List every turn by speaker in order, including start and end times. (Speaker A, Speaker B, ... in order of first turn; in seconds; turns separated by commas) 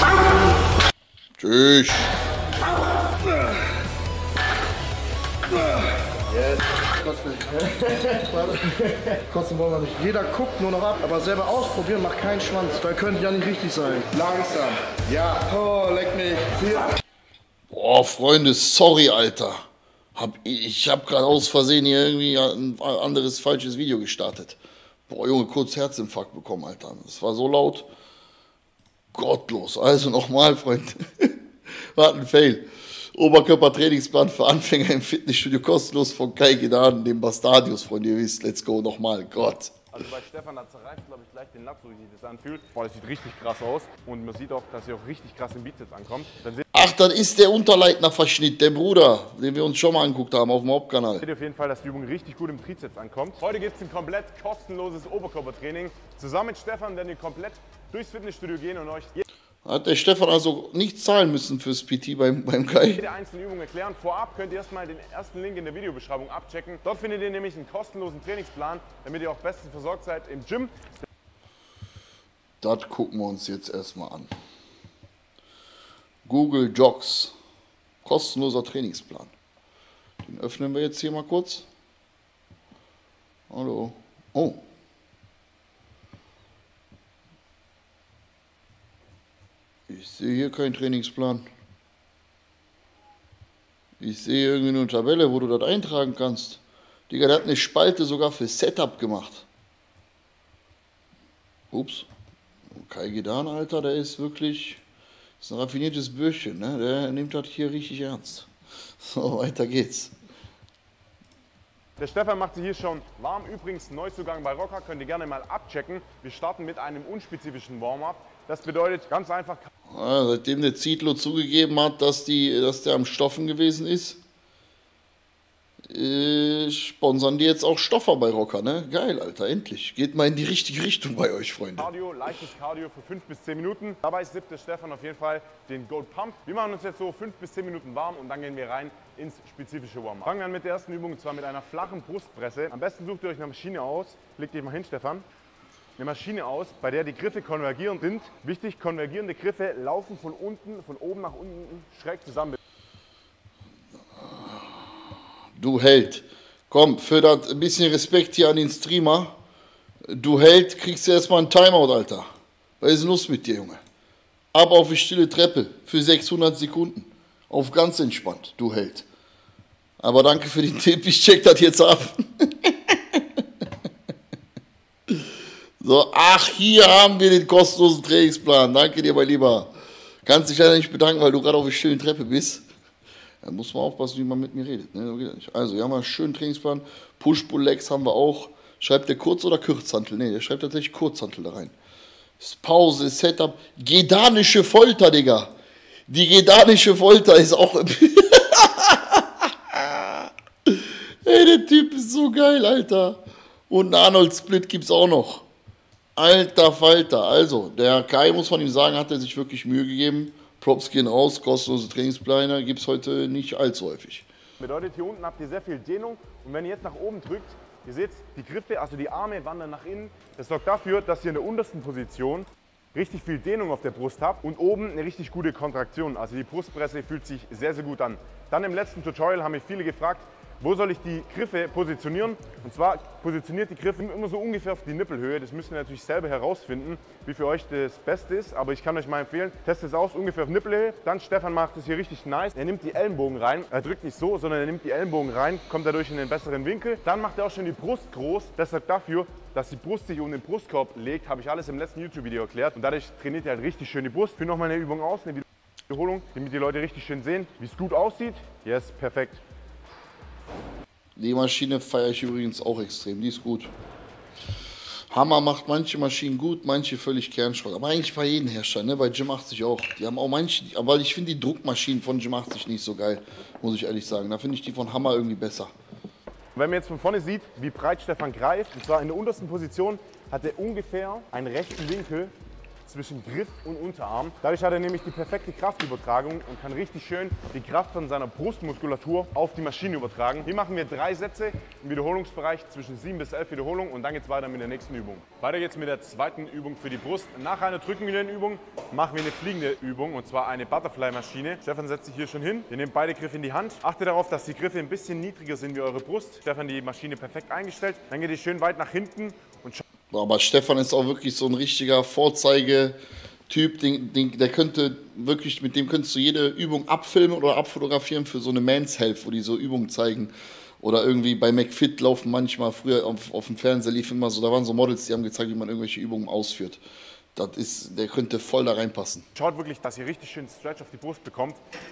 Speaker A: 1.4-2.1, Speaker B: 5.7-16.9, Speaker A: 17.7-19.6, Speaker A: 20.1-24.6, Speaker A: 25.1-27.9, Speaker A: 29.1-31.3, Speaker A: 31.9-39.9, Speaker C: 39.9-46.6, Speaker A: 46.7-51.3, Speaker C: 51.2-59.2, Speaker A: 59.6-63.0, Speaker C: 62.9-70.9, Speaker A: 72.6-74.3, Speaker A: 76.2-77.3, Speaker A: 78.0-79.3, Speaker A: 80.2-81.7, Speaker A: 83.5-84.6, Speaker A: 89.9-91.5, Speaker A: 94.0-99.5, Speaker A: 101.7-102.1, Speaker A: 102.7-104.8, Speaker A: 105.4-110.1, Speaker C: 112.0-119.7, Speaker A: 119.9-124.2, Speaker A: 125.9-131.9, Speaker C: 131.8-145.2, Speaker C: 146.0-152.6, Speaker A: 154.2-154.9, Speaker A: 155.6-159.4, Speaker A: 160.1-162.3, Speaker A: 162.8-163.8, Speaker A: 164.5-169.1, Speaker A: 170.0-173.2, Speaker A: 175.8-179.7, Speaker A: 180.2-182.7, Speaker A: 183.4-191.7, Speaker A: 192.4-195.5, Speaker A: 196.1-205.5, Speaker A: 206.2-214.3, Speaker C: 214.6-259.4, Speaker A: 261.2-263.7, Speaker A: 265.1-275.7, Speaker C: 276.6-282.3, Speaker C: 282.9-309.8, Speaker A: 310.1-313.0, Speaker A: 313.5-326.8, Speaker A: 327.4-329.3, Speaker C: 329.4-331.6